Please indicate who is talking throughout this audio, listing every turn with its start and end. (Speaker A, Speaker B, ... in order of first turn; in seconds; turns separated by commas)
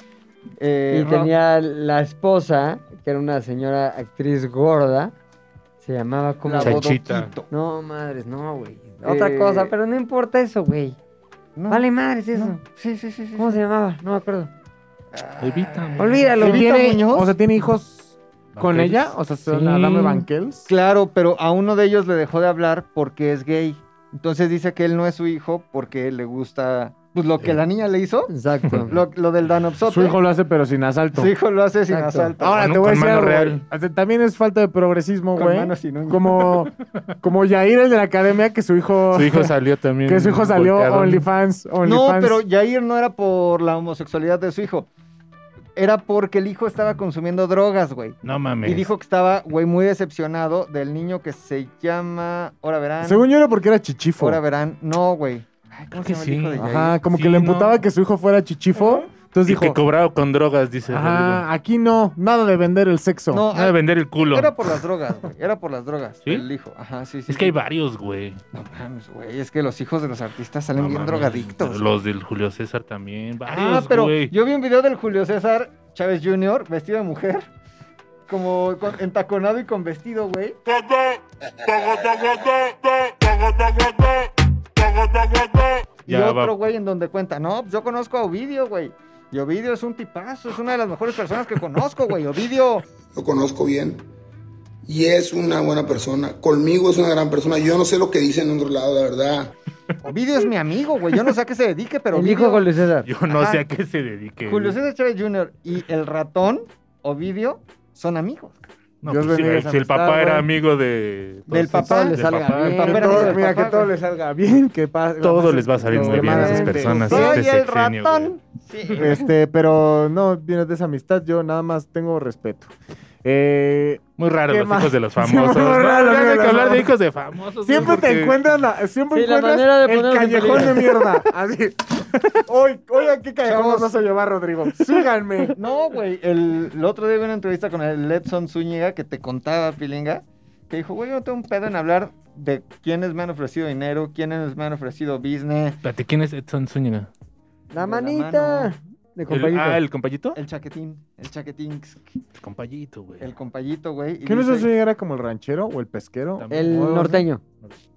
Speaker A: 0.6-1.3, Speaker B: 0.9-5.1, Speaker B: 5.8-6.9, Speaker A: 6.4-7.5, Speaker C: 6.6-7.3, Speaker B: 7.5-11.0, Speaker A: 9.0-9.7, Speaker A: 11.6-13.6, Speaker B: 11.7-12.6, Speaker B: 13.4-14.5, Speaker A: 15.1-17.4, Speaker C: 15.4-16.3, Speaker B: 16.0-16.7, Speaker D: 16.4-20.7, Speaker C: 18.5-19.1, Speaker A: 20.7-28.3, Speaker B: 28.3-29.0, Speaker A: 28.9-30.2, Speaker D: 29.8-31.3, Speaker A: 31.1-32.6, Speaker B: 31.9-32.3, Speaker D: 32.4-39.5, Speaker C: 32.6-33.6, Speaker A: 35.4-36.5, Speaker C: 39.1-41.2, Speaker D: 40.0-42.4, Speaker A: 41.8-44.9, Speaker A: 45.8-53.3, Speaker C: 48.2-48.9, Speaker D: 53.0-54.4, Speaker A: 54.2-57.0, Speaker C: 55.9-57.8, Speaker D: 56.5-59.8, Speaker C: 59.4-61.4, Speaker D: 60.9-63.5, Speaker A: 63.3-67.6, Speaker C: 63.5-64.8, Speaker C: 67.3-68.4, Speaker A: 68.5-71.8, Speaker C: 70.8-74.3, Speaker A: 73.5-77.5, Speaker A: 78.3-80.6, Speaker A: 86.0-92.9, Speaker C: 86.1-86.5, Speaker E: 93.0-94.0, Speaker E: 94.8-99.5, Speaker A: 100.0-102.7, Speaker B: 102.1-103.1, Speaker C: 103.0-104.8, Speaker A: 103.3-103.6, Speaker A: 104.4-108.6, Speaker C: 109.0-113.0, Speaker D: 109.0-110.5, Speaker A: 111.5-113.9, Speaker B: 111.7-113.4, Speaker D: 112.6-117.4, Speaker C: 115.2-118.3, Speaker A: 116.0-119.3, Speaker D: 119.0-122.7, Speaker D: 123.2-126.9, Speaker C: 124.2-128.4, Speaker D: 127.6-135.6, Speaker B: 129.1-131.0, Speaker A: 133.4-133.9, Speaker A: 135.5-145.8, Speaker C: 145.8-147.1, Speaker B: 147.7-149.8, Speaker A: 147.7-148.8, Speaker C: 149.3-150.4, Speaker A: 150.3-152.1, Speaker C: 152.4-153.3, Speaker A: 153.2-154.7, Speaker D: 154.2-157.2, Speaker C: 156.4-157.0, Speaker B: 156.5-157.4